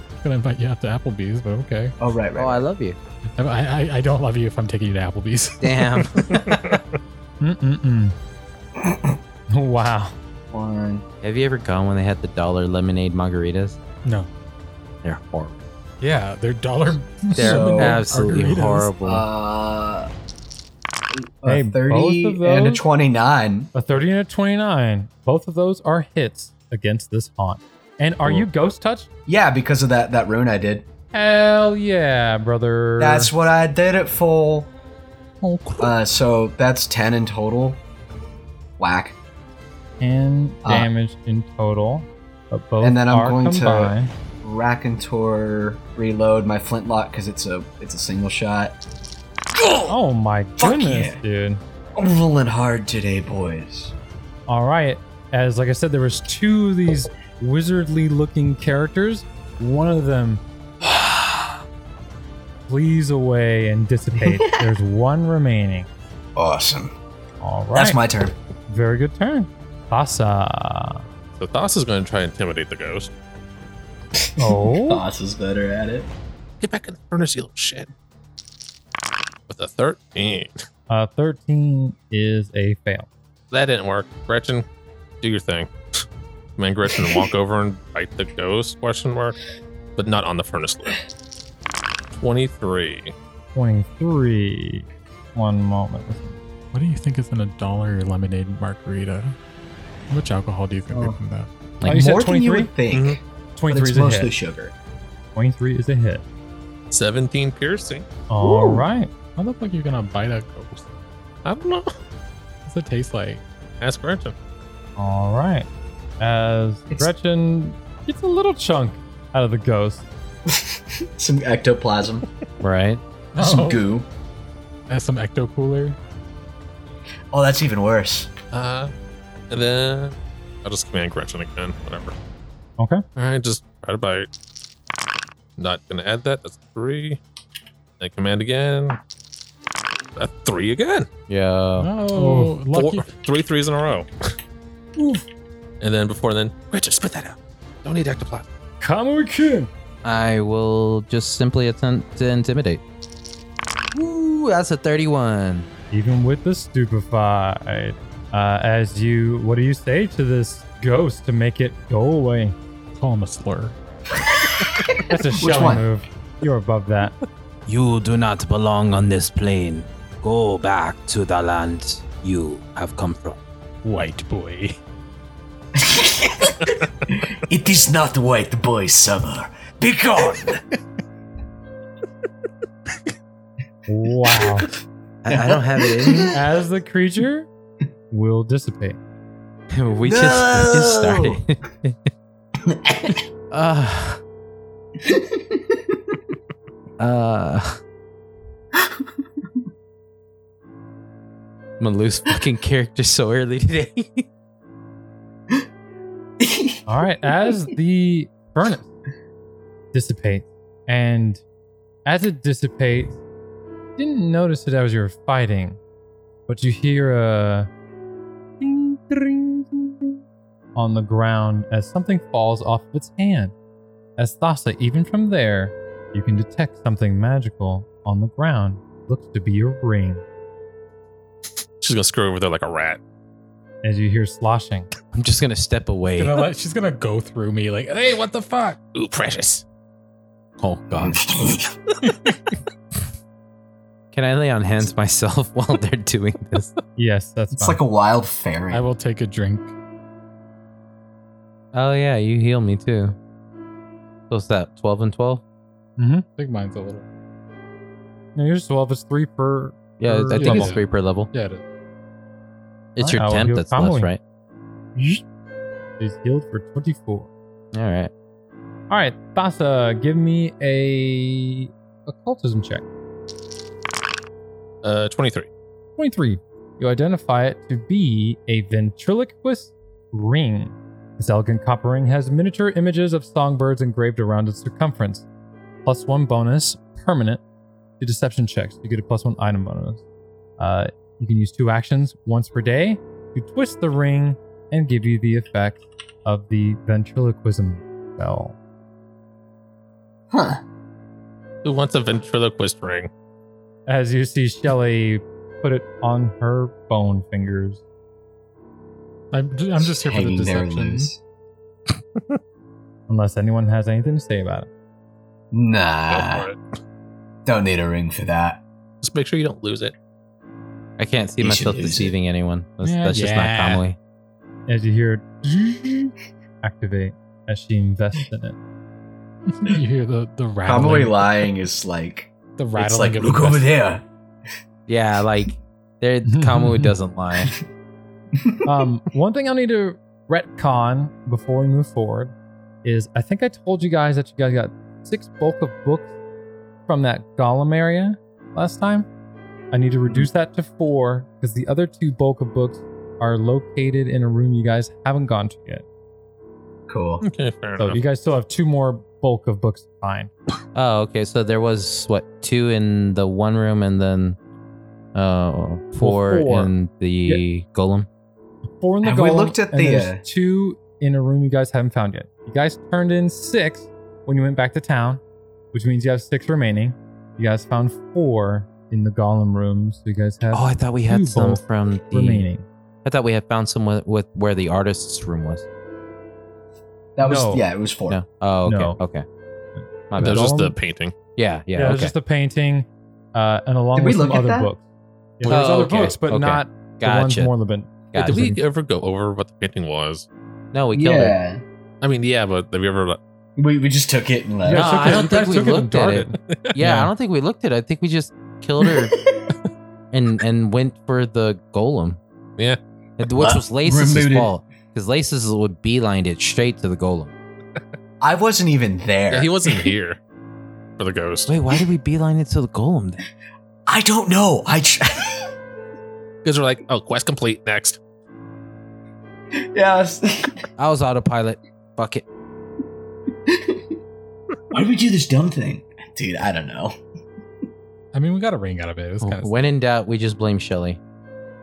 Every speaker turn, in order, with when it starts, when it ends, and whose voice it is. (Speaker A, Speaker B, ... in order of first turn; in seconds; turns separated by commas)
Speaker A: 0.2-1.9, Speaker B: 2.0-2.6, Speaker C: 2.4-3.0, Speaker A: 3.4-6.0, Speaker C: 5.6-6.8, Speaker D: 7.4-8.1, Speaker D: 9.5-10.2, Speaker B: 10.5-11.0, Speaker C: 11.2-13.8, Speaker C: 15.0-15.6, Speaker A: 16.0-18.9, Speaker C: 17.3-19.2, Speaker B: 17.4-18.4, Speaker B: 19.0-20.1, Speaker B: 21.4-23.7, Speaker D: 21.5-22.8, Speaker D: 23.7-29.1, Speaker B: 29.3-30.9, Speaker D: 31.1-33.3, Speaker B: 33.0-34.7, Speaker A: 35.4-35.9, Speaker B: 35.8-37.8, Speaker B: 38.8-39.1, Speaker D: 40.0-44.1, Speaker B: 42.8-48.8, Speaker B: 49.6-49.9, Speaker D: 49.9-51.6, Speaker B: 50.6-51.2, Speaker B: 52.0-53.9, Speaker D: 54.5-60.4, Speaker B: 60.8-61.1, Speaker D: 62.7-65.9, Speaker B: 64.2-64.5, Speaker B: 66.4-66.9, Speaker D: 67.4-68.0, Speaker B: 67.7-68.3, Speaker D: 68.7-71.0, Speaker E: 71.4-73.1, Speaker B: 74.2-76.1, Speaker D: 74.4-75.0, Speaker E: 76.6-77.9, Speaker E: 79.5-80.6, Speaker D: 80.9-83.1, Speaker E: 83.5-84.6, Speaker E: 85.2-86.0, Speaker E: 86.6-89.4, Speaker E: 90.0-91.0, Speaker E: 92.2-93.1, Speaker D: 93.5-96.4, Speaker A: 96.7-99.4, Speaker A: 100.1-101.5, Speaker B: 100.9-101.2, Speaker B: 101.8-104.7, Speaker D: 101.8-102.7, Speaker E: 102.9-103.2, Speaker D: 103.5-104.3, Speaker D: 105.4-106.2, Speaker E: 106.9-108.0, Speaker D: 108.3-109.1, Speaker B: 108.4-108.9, Speaker A: 109.4-110.8, Speaker E: 111.4-111.9, Speaker A: 112.6-113.4, Speaker E: 113.8-114.3, Speaker D: 115.0-115.7, Speaker D: 116.2-120.1, Speaker B: 120.5-122.2, Speaker C: 122.6-123.0, Speaker A: 123.3-123.9, Speaker B: 123.4-124.1, Speaker A: 124.9-126.0, Speaker B: 127.3-128.3, Speaker E: 128.5-128.9, Speaker E: 129.5-132.1, Speaker E: 133.2-134.3, Speaker E: 135.6-137.2, Speaker E: 138.0-139.0, Speaker E: 140.2-141.1, Speaker C: 141.3-141.9, Speaker A: 141.8-143.1, Speaker D: 142.1-142.5, Speaker E: 142.7-144.1, Speaker D: 145.0-145.2, Speaker E: 145.8-148.5, Speaker D: 148.8-149.7, Speaker C: 150.0-152.8, Speaker C: 153.9-155.7, Speaker D: 155.9-162.6, Speaker A: 163.0-163.8, Speaker B: 164.3-165.9, Speaker D: 165.1-167.1, Speaker C: 167.7-173.4, Speaker A: 173.8-174.8, Speaker B: 175.8-180.6, Speaker D: 183.9-184.7, Speaker C: 185.2-186.4, Speaker B: 185.3-186.4, Speaker D: 186.3-187.5, Speaker D: 188.1-189.0, Speaker C: 189.7-192.0, Speaker B: 190.1-191.4, Speaker B: 192.7-193.2, Speaker C: 193.5-194.2, Speaker C: 197.0-197.8, Speaker C: 201.8-204.2, Speaker B: 206.4-206.8, Speaker D: 206.9-208.9, Speaker D: 209.9-211.4, Speaker D: 212.1-213.2, Speaker D: 214.0-215.8, Speaker D: 216.5-217.7, Speaker D: 218.6-220.2, Speaker D: 220.8-223.5, Speaker D: 224.2-230.2, Speaker E: 231.8-233.0, Speaker D: 233.8-234.9, Speaker C: 235.1-236.5, Speaker A: 236.2-238.8, Speaker E: 238.9-239.6, Speaker C: 240.6-241.2, Speaker B: 240.9-241.8, Speaker A: 242.0-242.3, Speaker C: 244.1-246.7, Speaker D: 247.0-247.8, Speaker B: 247.5-248.9, Speaker A: 248.7-249.7, Speaker C: 251.7-253.2, Speaker C: 254.3-255.4, Speaker D: 256.0-256.2, Speaker A: 256.4-257.1, Speaker D: 258.4-260.8, Speaker C: 260.0-261.3, Speaker A: 260.4-260.8, Speaker A: 261.3-261.6, Speaker C: 263.0-264.2, Speaker D: 263.0-264.1, Speaker D: 265.0-265.2, Speaker D: 266.0-267.3, Speaker C: 267.7-268.1, Speaker D: 268.9-272.9, Speaker E: 274.8-275.5, Speaker D: 276.0-285.3, Speaker D: 285.9-287.4, Speaker D: 288.0-290.0, Speaker D: 290.6-298.6, Speaker B: 300.3-300.6, Speaker E: 301.6-303.1, Speaker D: 303.9-307.8, Speaker A: 309.3-311.1, Speaker B: 309.8-311.2, Speaker D: 313.1-314.7, Speaker B: 315.5-316.5, Speaker E: 316.1-316.6, Speaker B: 317.4-318.6, Speaker E: 319.0-319.9, Speaker C: 321.0-324.0, Speaker B: 321.4-322.1, Speaker A: 322.8-323.8, Speaker D: 324.7-328.6, Speaker A: 329.5-331.5, Speaker B: 330.6-334.0, Speaker A: 332.6-333.7, Speaker C: 334.9-337.5, Speaker D: 336.2-336.9, Speaker D: 338.6-346.1, Speaker D: 346.9-349.1, Speaker D: 349.7-355.9, Speaker B: 356.9-357.2, Speaker E: 357.2-358.0, Speaker D: 357.8-360.3, Speaker C: 360.7-364.4, Speaker C: 365.1-368.1, Speaker D: 366.0-366.7, Speaker D: 368.8-375.2, Speaker B: 369.0-370.2, Speaker D: 375.7-382.7, Speaker C: 380.5-382.5, Speaker C: 383.0-385.6, Speaker B: 387.2-388.2, Speaker D: 387.2-387.7, Speaker C: 388.1-389.2, Speaker D: 388.6-389.0, Speaker D: 389.8-390.8, Speaker C: 390.1-390.5, Speaker E: 390.2-391.1, Speaker C: 391.4-392.1, Speaker D: 391.8-394.8, Speaker B: 393.9-394.7, Speaker D: 395.4-398.6, Speaker C: 395.5-397.5, Speaker C: 398.1-398.5, Speaker E: 398.1-400.3, Speaker C: 400.7-401.4, Speaker B: 400.9-401.6, Speaker E: 402.0-403.2, Speaker B: 403.6-405.0, Speaker D: 404.6-406.4, Speaker C: 404.8-409.2, Speaker C: 410.1-412.2, Speaker C: 413.2-417.3, Speaker B: 413.3-414.5, Speaker B: 418.2-419.9, Speaker E: 419.3-420.2, Speaker E: 421.0-421.5, Speaker C: 421.5-423.2, Speaker B: 423.9-425.5, Speaker E: 426.4-428.0, Speaker B: 429.7-430.6, Speaker C: 430.8-432.2, Speaker B: 433.5-433.8, Speaker B: 434.7-436.9, Speaker A: 438.1-439.5, Speaker C: 439.2-441.0